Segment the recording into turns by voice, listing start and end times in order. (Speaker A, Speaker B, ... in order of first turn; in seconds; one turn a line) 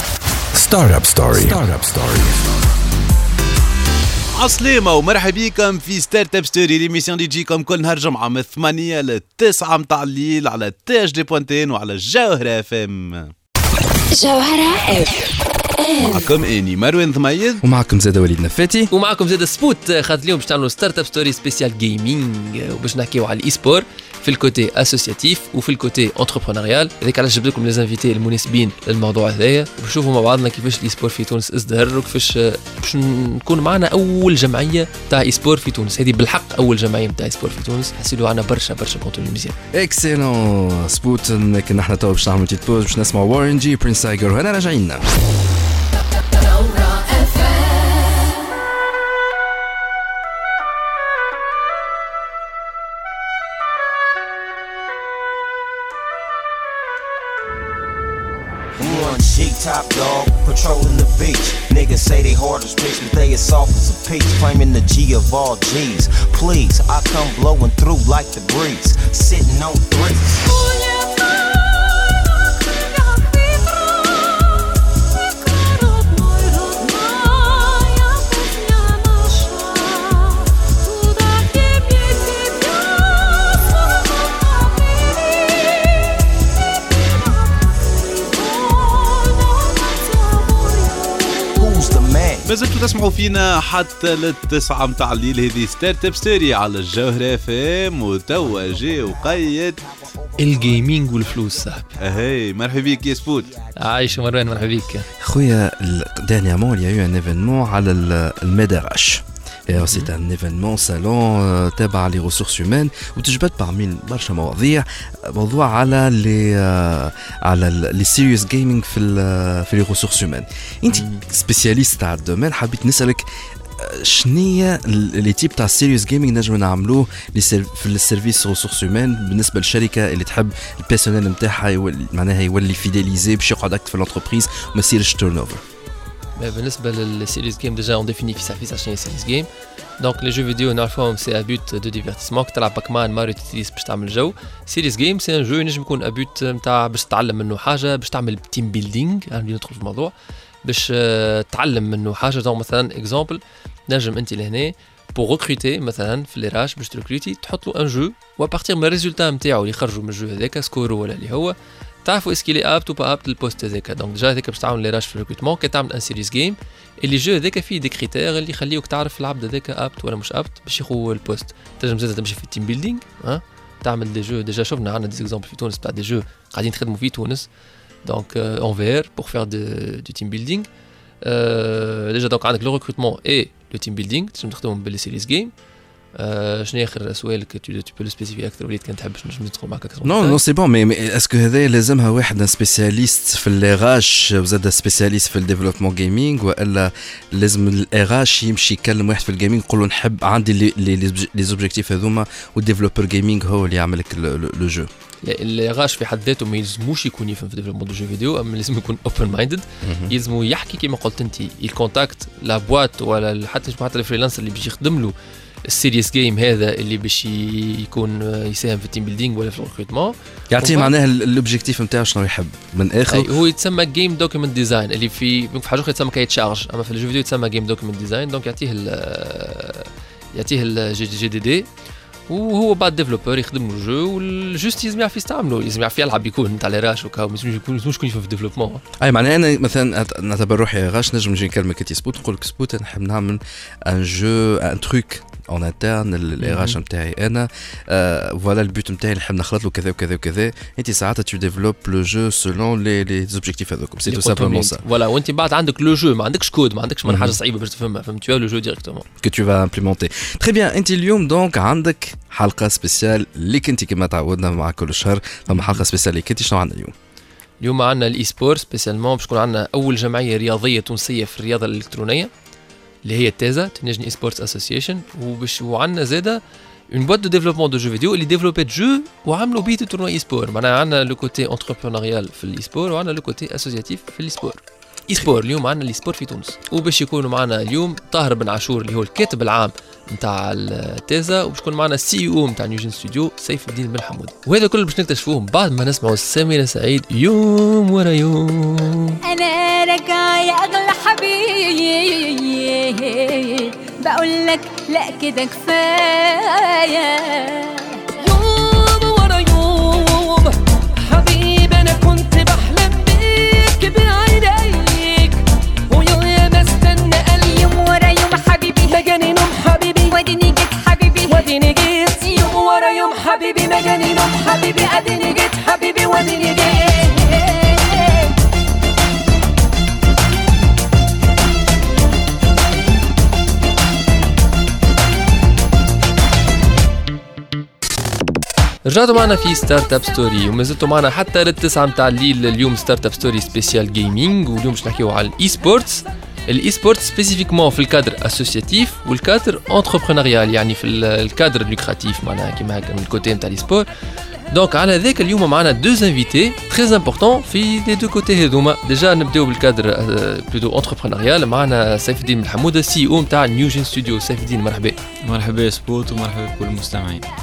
Speaker A: 0.5-2.5
Speaker B: 4.3-13.3
Speaker C: 14.1-16.3
Speaker B: 16.0-17.6
Speaker D: 17.6-18.9
Speaker E: 18.9-39.6
Speaker D: 39.7-45.1
Speaker C: 46.5-47.6
Speaker F: 58.8-70.5
Speaker G: 70.6-71.9
Speaker G: 73.0-74.4
Speaker G: 75.5-80.3
Speaker G: 80.8-83.6
Speaker G: 84.6-85.0
Speaker G: 88.2-90.9
Speaker F: 91.6-92.5
Speaker B: 92.5-99.8
Speaker E: 100.4-101.9
Speaker B: 102.0-103.5
Speaker E: 103.8-105.1
Speaker D: 105.2-123.3
Speaker E: 109.8-110.1
Speaker E: 120.9-121.2
Speaker D: 123.8-135.6
Speaker E: 136.4-139.5
Speaker E: 140.0-150.1
Speaker E: 150.6-177.5
Speaker E: 178.1-180.7
Speaker E: 181.2-185.5
Speaker E: 186.2-190.4
Speaker D: 190.0-204.9
Speaker E: 205.2-215.1
Speaker D: 209.8-210.1
Speaker E: 215.7-220.9
Speaker D: 220.5-223.3
Speaker E: 223.1-231.7
Speaker E: 232.3-238.8
Speaker D: 239.0-254.8
Speaker E: 246.4-246.8
Speaker E: 254.1-259.1
Speaker D: 257.1-257.4
Speaker D: 259.2-266.9
Speaker E: 265.5-265.8
Speaker E: 267.6-272.3
Speaker E: 273.0-299.2
Speaker C: 299.2-307.9
Speaker G: 308.2-317.8
Speaker C: 317.6-319.0
Speaker G: 318.9-320.2
Speaker C: 320.1-321.4
Speaker G: 321.3-327.4
Speaker E: 338.9-353.9
Speaker E: 354.5-365.0
Speaker H: 365.2-367.2